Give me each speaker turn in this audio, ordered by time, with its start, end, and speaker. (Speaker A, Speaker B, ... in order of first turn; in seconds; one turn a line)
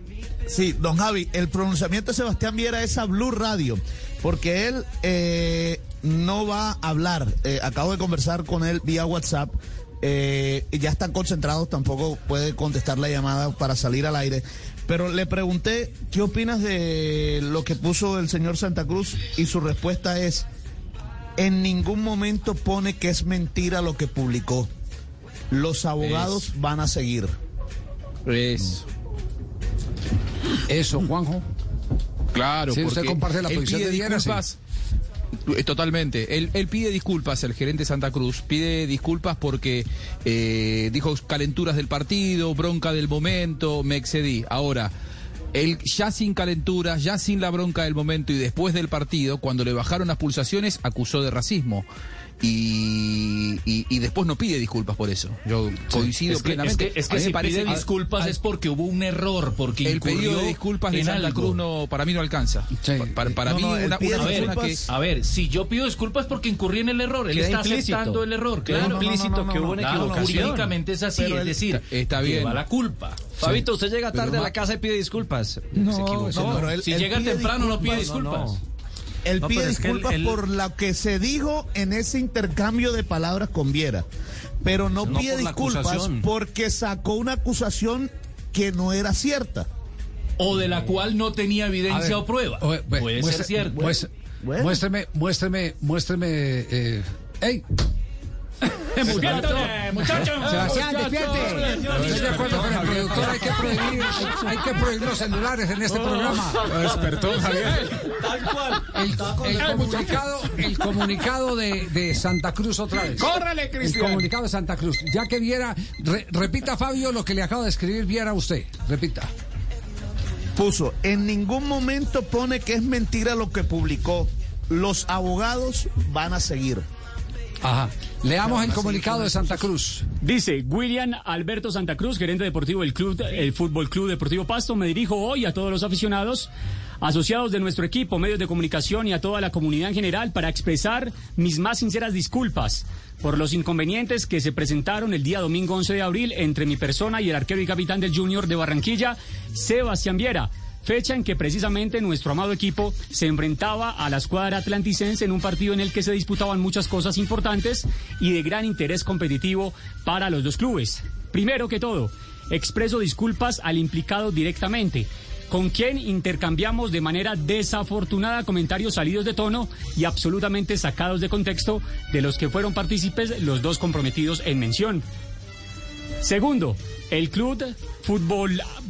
Speaker A: 0.5-20.4
Speaker A: 21.4-24.7
Speaker A: 25.5-27.3
Speaker B: 26.0-26.4
Speaker B: 28.3-28.8
Speaker C: 30.7-31.4
Speaker B: 32.3-34.6
Speaker C: 32.7-34.4
Speaker B: 35.5-44.9
Speaker B: 45.5-51.9
Speaker B: 52.4-58.4
Speaker D: 56.3-61.6
Speaker B: 59.8-64.8
Speaker C: 62.8-63.2
Speaker A: 63.4-64.9
Speaker D: 64.1-73.4
Speaker E: 67.3-70.8
Speaker A: 69.0-70.5
Speaker A: 71.2-71.6
Speaker B: 71.8-72.6
Speaker E: 73.4-77.0
Speaker B: 73.4-74.5
Speaker A: 75.7-78.0
Speaker D: 76.4-78.6
Speaker E: 77.8-78.6
Speaker A: 79.2-84.0
Speaker E: 79.4-80.4
Speaker A: 84.6-89.7
Speaker E: 85.0-86.3
Speaker D: 90.4-94.0
Speaker C: 91.9-94.1
Speaker A: 93.6-94.8
Speaker C: 94.6-97.6
Speaker D: 98.9-102.5
Speaker E: 99.1-99.7
Speaker F: 99.1-101.5
Speaker C: 100.4-106.7
Speaker E: 101.4-104.3
Speaker B: 101.9-102.2
Speaker F: 102.3-103.0
Speaker E: 105.9-110.2
Speaker F: 106.7-107.9
Speaker C: 108.9-119.3
Speaker F: 113.3-114.1
Speaker A: 120.6-126.8
Speaker C: 127.6-130.0
Speaker A: 128.4-129.7
Speaker F: 130.2-175.0
Speaker F: 176.2-178.7